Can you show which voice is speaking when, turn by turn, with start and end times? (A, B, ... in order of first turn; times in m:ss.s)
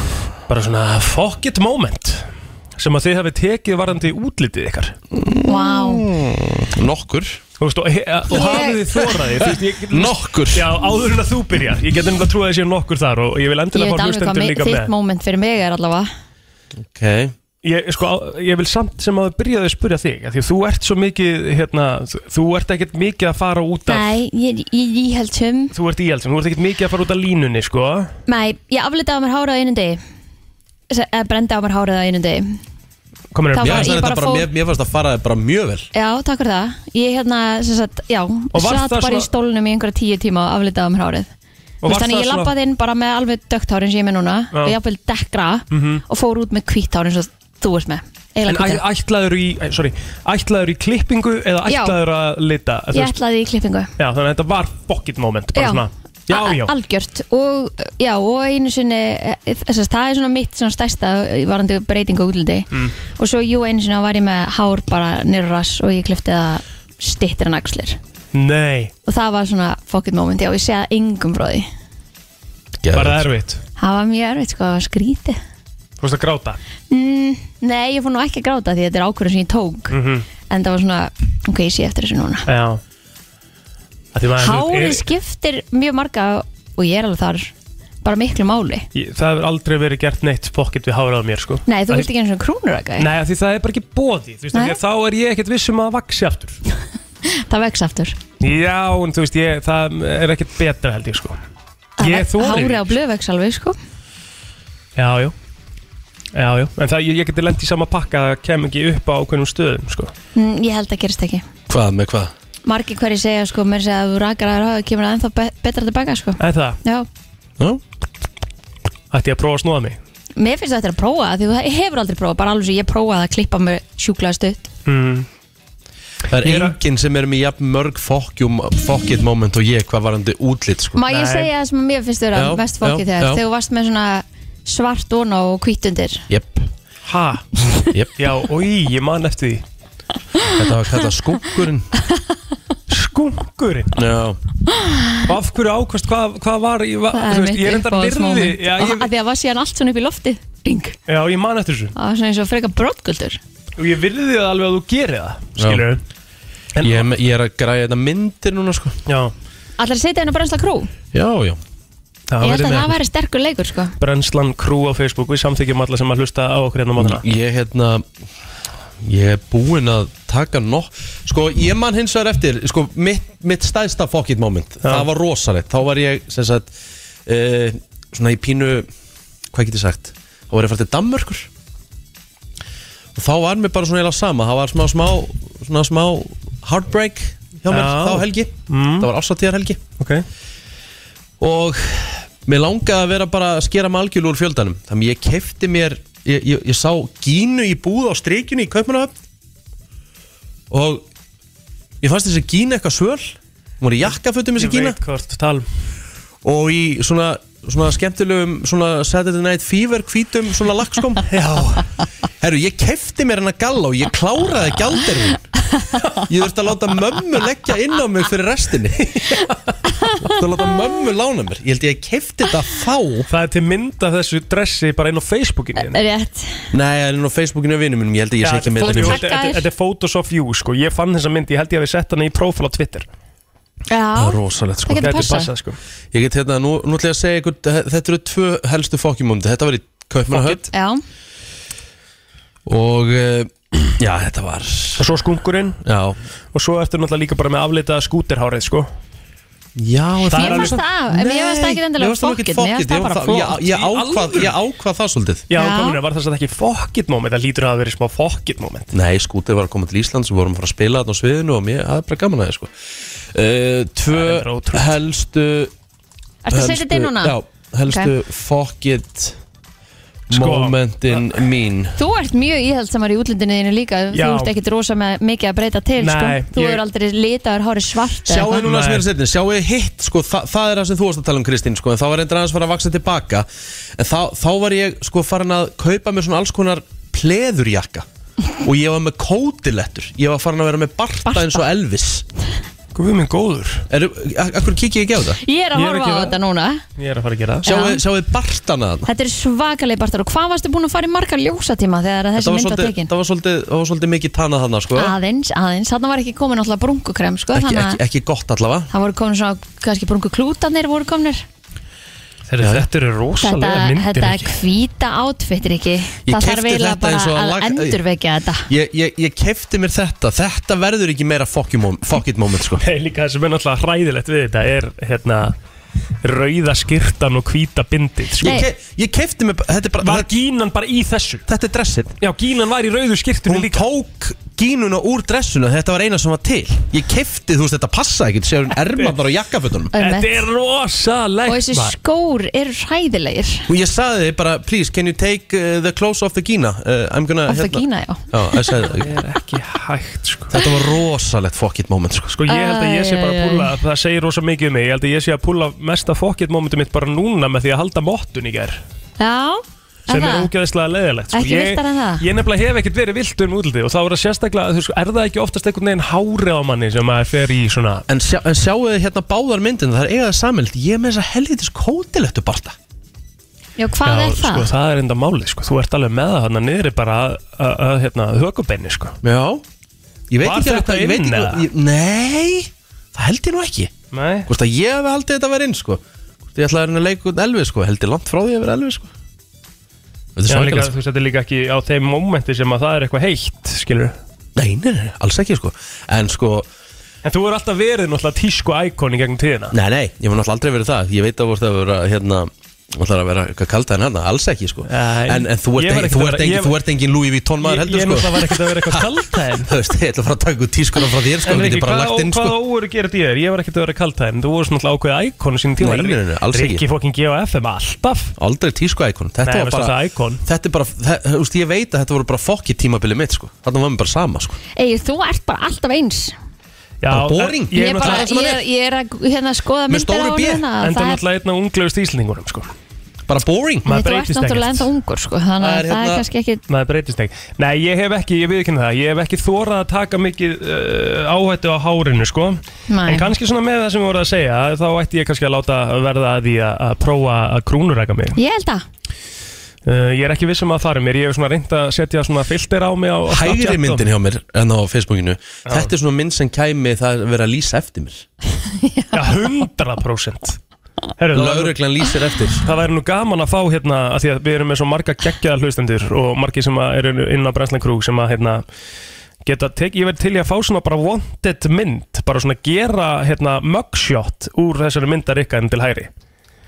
0:00.5-0:05.0 A
0:05.1-0:07.4 B
0:05.4-0:06.1 C
0:07.6-0:14.9 A
0:08.3-0:08.8 C
0:08.3-0:10.8 B
0:13.7-0:16.1 C
0:16.8-0:17.3 B
0:17.6-0:24.1 A
0:23.9-0:25.7 C
0:25.7-0:28.1 A
0:28.3-0:30.0 C
0:30.9-0:32.6 C
0:33.3-0:33.9 A
0:33.5-0:34.5 C
0:33.6-0:35.9 B
0:35.9-0:41.3 C
0:38.5-0:39.3 A
0:41.8-0:42.5 A
0:41.8-0:48.8 C
0:45.7-0:46.0 A
0:48.4-0:53.2 A
0:51.7-0:52.0 C
0:52.9-0:53.9 C
0:54.0-0:56.7 A
0:55.6-1:08.0 C
1:08.3-1:08.9 A
1:09.0-1:11.7 C
1:12.8-1:13.3 B
1:12.9-1:13.6 A
1:13.8-1:15.4 C
1:16.0-1:16.6 A
1:16.9-1:20.0 C
1:19.9-1:20.2 A
1:20.5-1:22.4 C
1:22.5-1:22.8 A
1:24.1-1:25.0 A
1:24.4-1:27.5 C
1:28.0-1:28.9 C
1:28.9-1:32.1 A
1:31.7-1:33.1 C
1:33.0-1:36.6 A
1:37.2-1:38.2 C
1:38.4-1:41.4 A
1:42.0-1:43.8 C
1:42.0-1:42.9 A
1:45.0-1:45.3 A
1:46.3-1:50.1 A
1:50.3-1:51.4 C
1:51.7-1:52.3 B
1:52.6-1:57.1 C
1:56.4-1:56.8 A
1:59.1-2:00.0 A
2:00.4-2:04.7 C
2:04.8-2:05.3 A
2:06.3-2:11.0 B
2:06.4-2:06.8 A
2:10.9-2:16.2 C
2:11.1-2:11.5 A
2:12.3-2:13.4 B
2:16.3-2:16.7 B
2:17.0-2:19.6 A
2:20.5-2:21.9 B
2:22.9-2:24.0 A
2:23.9-2:24.4 B
2:24.7-2:25.2 C
2:25.3-2:29.1 A
2:27.1-2:31.0 C
2:31.1-2:31.9 A
2:31.9-2:33.4 C
2:33.8-2:36.0 A
2:35.6-2:35.9 B
2:36.8-2:37.1 A
2:36.8-2:39.0 B
2:39.1-2:39.3 A
2:39.8-2:40.9 C
2:41.1-2:41.6 B
2:42.3-2:43.0 A
2:42.4-2:43.9 C
2:44.0-2:47.2 A
2:47.0-2:48.0 B
2:49.0-2:56.7 B
2:57.2-2:58.9 B
2:59.5-3:01.5 B
3:03.1-3:09.8 B
3:07.7-3:09.1 A
3:10.0-3:10.2 A
3:11.4-3:19.1 B
3:20.7-3:21.0 B
3:22.0-3:25.0 B
3:24.6-3:25.6 A
3:26.4-3:31.3 B
3:31.3-3:31.8 A
3:32.4-3:35.6 B
3:36.3-3:39.2 B
3:39.1-3:39.5 A
3:40.2-3:43.3 B
3:43.3-3:46.0 A
3:45.8-3:46.7 C
3:46.7-3:49.2 B
3:48.4-3:53.1 A
3:48.8-3:49.6 C
3:53.9-3:55.5 C
3:54.1-3:55.2 B
3:55.0-3:55.8 A
3:56.1-4:00.7 B
4:00.7-4:01.0 C
4:02.6-4:05.1 B
4:05.0-4:05.8 A
4:05.8-4:06.2 B
4:06.5-4:08.9 A
4:09.8-4:15.4 B
4:10.3-4:10.8 A
4:10.3-4:13.6 C
4:13.7-4:14.5 A
4:15.5-4:18.9 A
4:15.5-4:16.0 C
4:18.9-4:22.7 B
4:23.3-4:25.7 B
4:24.1-4:25.0 A
4:26.4-4:27.4 C
4:26.5-4:29.4 B
4:30.3-4:31.2 A
4:30.3-4:32.0 B
4:32.0-4:38.6 C
4:34.1-4:34.5 A
4:36.0-4:36.8 A
4:38.2-4:48.0 B
4:38.5-4:39.0 A
4:48.6-4:52.2 B
4:51.3-4:51.6 C
4:52.9-4:53.8 A
4:53.9-4:55.4 B
4:55.4-4:56.8 C
4:55.7-4:56.4 A
4:57.0-4:57.6 A
4:57.6-4:59.1 B
4:57.6-4:58.0 C
4:59.0-5:03.1 C
5:02.4-5:05.1 B
5:05.0-5:08.0 C
5:07.5-5:08.9 B
5:08.9-5:11.4 C
5:12.5-5:14.6 A
5:12.6-5:12.9 B
5:13.4-5:18.7 C
5:16.2-5:18.0 B
5:18.7-5:22.8 B
5:22.8-5:25.5 A
5:26.2-5:28.6 A
5:28.4-5:30.3 B
5:30.0-5:31.4 A
5:31.5-5:32.2 B
5:32.2-5:33.8 A
5:33.4-5:39.9 B
5:39.9-5:40.4 C
5:39.9-5:41.9 A
5:41.5-5:43.7 C
5:43.7-5:49.1 B
5:47.5-5:48.7 C
5:48.8-5:50.5 A
5:50.5-5:52.4 B
5:52.3-5:58.8 A
5:52.5-5:53.7 C
5:59.2-6:00.5 C
6:00.1-6:08.0 A
6:01.3-6:02.2 C
6:08.1-6:12.8 B
6:13.8-6:14.7 C
6:14.0-6:19.2 A
6:19.2-6:19.6 B
6:20.3-6:23.9 B
6:20.4-6:21.7 A
6:24.1-6:24.5 A
6:24.4-6:26.0 B
6:26.5-6:29.1 B
6:30.4-6:30.9 B
6:30.5-6:34.2 A
6:34.6-6:36.7 B
6:37.2-6:39.7 A
6:39.7-6:52.6 B
6:44.9-6:46.8 A
6:47.6-6:49.7 A
6:51.4-6:58.3 A
6:55.8-6:56.8 B
6:58.4-7:04.6 B
6:59.4-7:00.4 A
7:04.8-7:06.3 C
7:07.0-7:08.2 A
7:07.1-7:08.6 B
7:07.7-7:11.2 C
7:09.9-7:10.6 B
7:10.8-7:12.7 A
7:13.3-7:13.9 B
7:13.8-7:14.9 A
7:13.9-7:16.6 C
7:15.6-7:16.2 B
7:16.7-7:28.4 A
7:22.9-7:23.3 C
7:28.4-7:28.8 C
7:29.8-7:34.1 A
7:33.3-7:38.2 B
7:35.6-7:35.9 A
7:38.8-7:39.2 C
7:39.1-7:40.6 A
7:41.2-7:41.8 A
7:41.3-7:42.7 B
7:42.6-7:48.6 A
7:49.4-7:56.1 A